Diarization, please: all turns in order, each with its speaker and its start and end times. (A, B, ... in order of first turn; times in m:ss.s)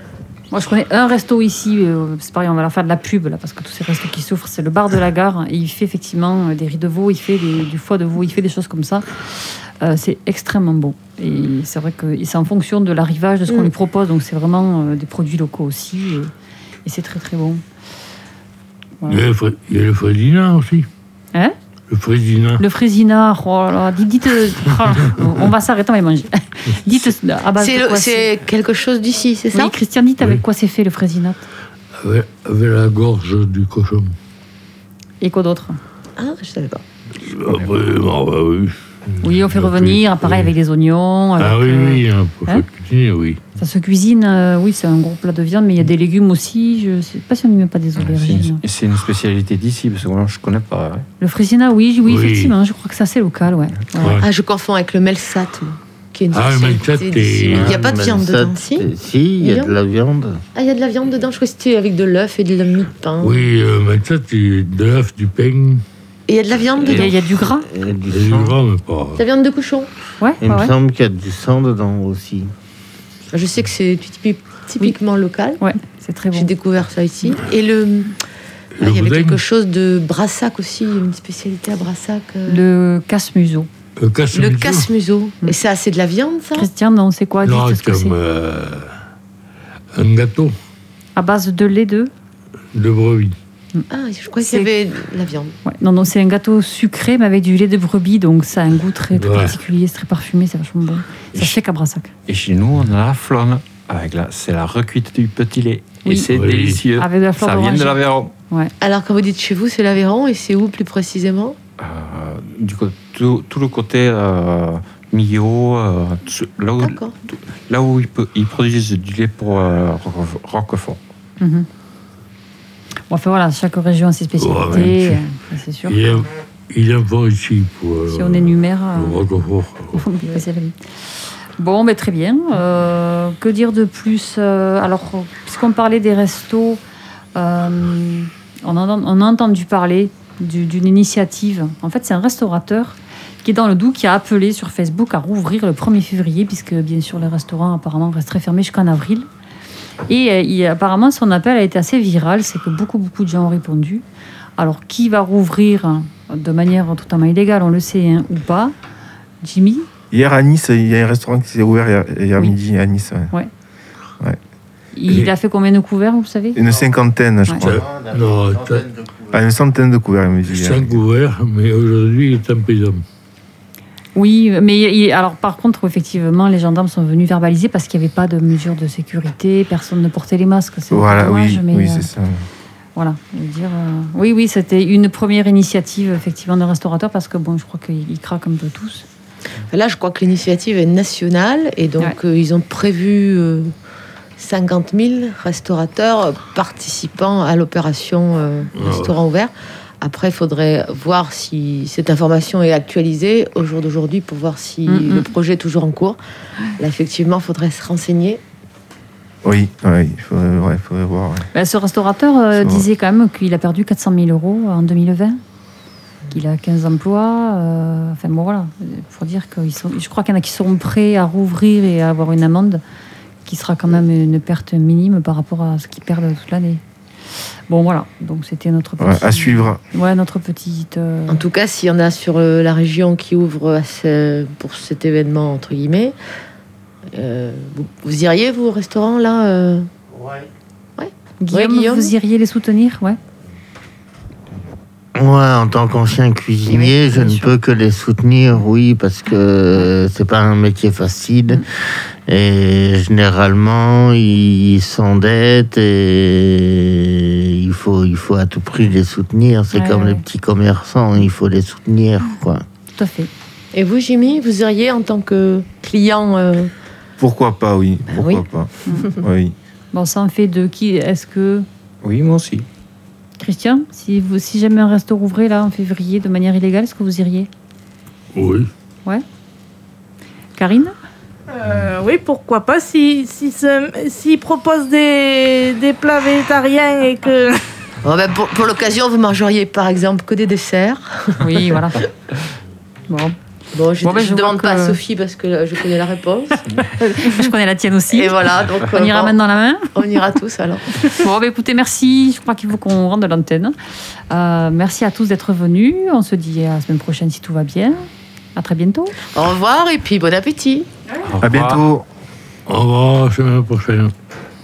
0:00.5-0:16.3 A
0:16.8-0:17.6 A
0:19.1-0:20.9 B
0:21.9-0:22.6 B
0:22.6-0:28.2 A
0:27.6-0:29.7 C
0:29.5-0:31.4 A
0:32.0-0:34.1 B
0:35.2-0:35.8 A
0:36.2-0:36.8 C
0:37.2-0:40.5 B
0:39.2-0:42.6 A
0:41.4-0:43.4 B
0:43.6-0:48.6 A
0:48.0-0:51.1 D
0:51.2-0:54.2 A
0:52.0-0:52.5 B
0:54.0-0:54.2 B
0:54.2-0:58.9 C
0:56.3-0:57.7 B
0:57.5-1:00.4 E
0:59.4-0:59.7 C
1:00.5-1:03.5 C
1:03.2-1:05.8 B
1:06.3-1:07.2 C
1:06.8-1:07.7 A
1:06.9-1:08.5 E
1:08.1-1:09.2 B
1:09.2-1:09.9 C
1:10.2-1:10.7 A
1:10.4-1:12.5 E
1:13.3-1:15.6 C
1:15.6-1:16.5 A
1:16.3-1:18.2 C
1:18.8-1:19.4 B
1:18.8-1:22.6 C
1:22.5-1:23.7 A
1:24.0-1:24.9 B
1:24.3-1:26.7 C
1:26.6-1:28.2 A
1:27.4-1:28.9 B
1:29.9-1:30.5 B
1:31.2-1:32.1 A
1:32.7-1:33.4 B
1:33.9-1:35.6 C
1:34.4-1:34.7 A
1:35.6-1:42.1 A
1:39.1-1:39.6 B
1:42.3-1:48.3 D
1:46.0-1:46.3 A
1:46.3-1:46.8 B
1:46.9-1:48.7 A
1:48.8-1:51.6 C
1:51.8-2:01.0 D
1:56.8-1:57.1 C
2:01.4-2:01.7 A
2:03.1-2:06.0 A
2:04.4-2:05.2 B
2:05.9-2:10.0 B
2:08.1-2:09.2 A
2:09.9-2:10.8 A
2:11.6-2:16.8 A
2:17.4-2:29.3 A
2:30.1-2:34.0 A
2:34.6-2:38.7 A
2:39.4-2:39.9 A
2:40.1-2:43.3 F
2:44.9-2:46.6 A
2:46.6-2:47.7 F
2:47.6-2:48.8 B
2:47.6-2:49.4 E
2:49.3-2:51.0 F
2:50.5-2:53.0 B
2:54.1-3:02.1 A
3:00.9-3:02.4 F
3:03.0-3:09.0 A
3:09.7-3:13.7 C
3:14.4-3:26.2 C
3:18.7-3:19.2 B
3:24.9-3:25.3 A
3:26.8-3:28.4 C
3:29.4-3:31.4 F
3:31.5-3:35.4 A
3:32.5-3:32.8 F
3:36.3-3:42.8 A
3:43.4-3:46.8 A
3:47.7-3:51.4 A
3:49.0-3:49.8 F
3:51.3-3:56.1 C
3:57.1-3:59.9 C
4:01.0-4:02.1 C
4:01.4-4:03.2 A
4:05.1-4:11.6 E
4:06.7-4:07.5 A
4:12.3-4:22.6 E
4:19.7-4:20.2 A
4:22.9-4:23.3 A
4:23.7-4:26.7 C
4:27.2-4:29.5 F
4:28.1-4:29.2 C
4:29.9-4:31.7 A
4:32.0-4:32.7 D
4:33.4-4:37.5 A
4:38.3-4:38.7 B
4:40.6-4:40.9 A
4:41.5-4:47.6 G
4:48.0-4:51.4 C
4:51.4-4:52.0 A
4:53.1-4:53.4 A
4:53.7-4:56.6 C
4:54.0-4:55.0 A
4:56.8-4:59.9 A
4:58.1-4:59.3 C
4:59.9-5:01.1 C
5:01.0-5:03.7 A
5:04.3-5:08.0 A
5:08.6-5:09.1 A
5:09.3-5:10.9 C
5:11.2-5:11.8 D
5:11.4-5:12.0 F
5:12.7-5:14.1 B